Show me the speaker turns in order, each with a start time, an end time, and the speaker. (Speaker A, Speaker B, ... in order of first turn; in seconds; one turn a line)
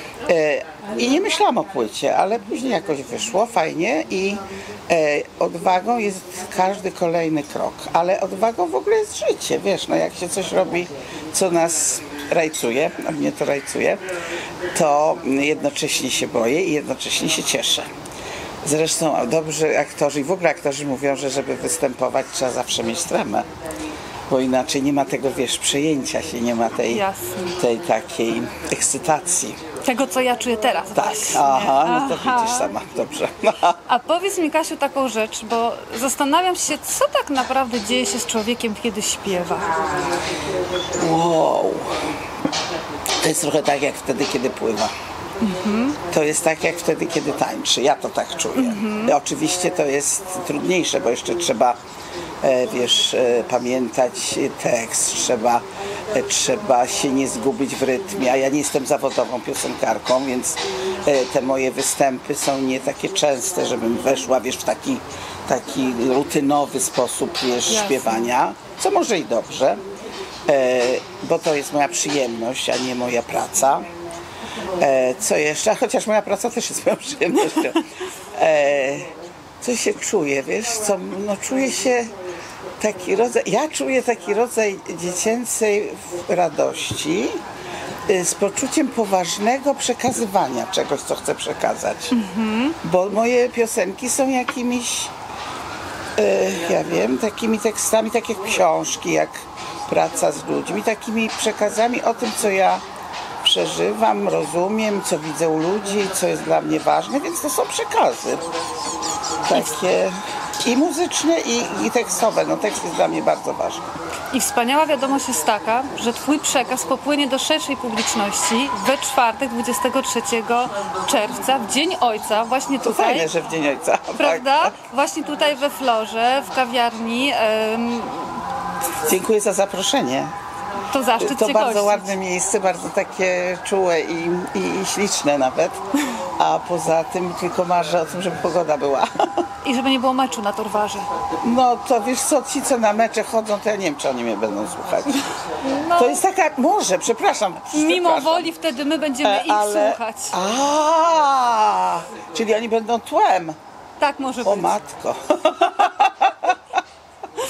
Speaker A: 0.2-14.0
Speaker A: 14.7-17.9
Speaker A: 18.6-23.5
Speaker A: 24.3-27.0
Speaker B: 26.9-27.6
Speaker A: 27.6-29.6
Speaker B: 29.8-32.7
Speaker A: 30.9-33.8
Speaker B: 33.9-39.7
Speaker A: 41.0-41.9
Speaker A: 43.2-44.9
Speaker B: 45.4-46.0
Speaker A: 46.1-51.8
Speaker B: 48.5-49.2
Speaker A: 52.4-69.8
Speaker B: 67.7-68.3
Speaker A: 70.5-73.9
Speaker A: 74.8-77.8
Speaker A: 78.3-79.1
Speaker A: 79.6-82.1
Speaker A: 82.8-87.4
Speaker A: 88.1-92.1
Speaker B: 92.1-92.8
Speaker A: 92.8-95.1
Speaker A: 96.2-102.8
Speaker A: 103.4-108.5
Speaker A: 109.5-113.8
Speaker B: 114.3-123.3
Speaker A: 122.8-124.8
Speaker B: 124.2-128.4
Speaker A: 129.0-130.3
Speaker B: 130.9-132.2
Speaker A: 131.2-135.8
Speaker A: 136.4-139.1
Speaker B: 139.6-141.1
Speaker A: 141.4-145.3
Speaker B: 145.6-146.2
Speaker A: 146.0-148.5
Speaker B: 147.7-150.4
Speaker A: 149.2-153.6
Speaker B: 154.0-154.8
Speaker A: 154.4-156.6